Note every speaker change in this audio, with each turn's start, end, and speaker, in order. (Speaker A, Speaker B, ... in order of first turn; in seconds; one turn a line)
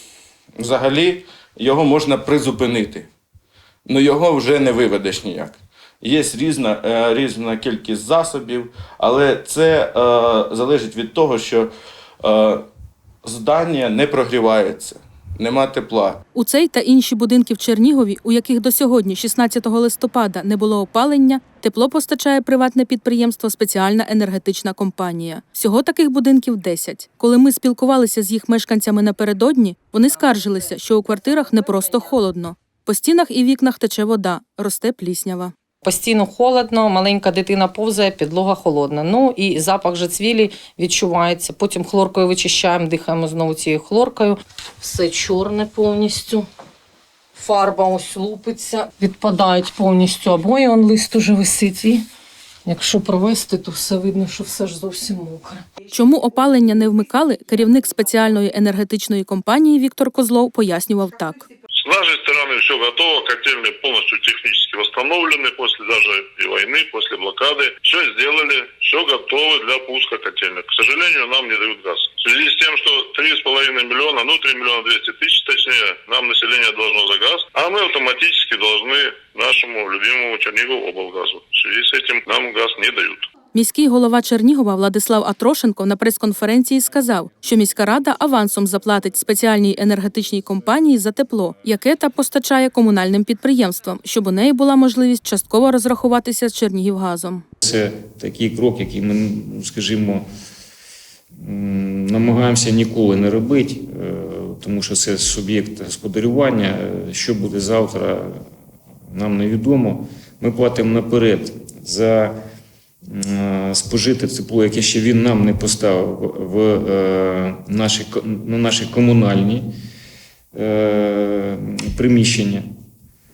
Speaker A: 0.6-3.1
Speaker A: 3.9-11.7
Speaker A: 12.2-12.6
Speaker A: 13.2-16.2
Speaker B: 16.3-35.5
Speaker C: 35.8-46.5
Speaker C: 47.3-52.0
Speaker C: 52.6-55.6
Speaker B: 55.9-61.5
Speaker D: 61.8-83.3
Speaker B: 83.5-97.4
Speaker E: 97.6-100.2
Speaker E: 101.4-108.5
Speaker E: 109.1-112.4
Speaker E: 113.0-119.7
Speaker E: 120.5-122.6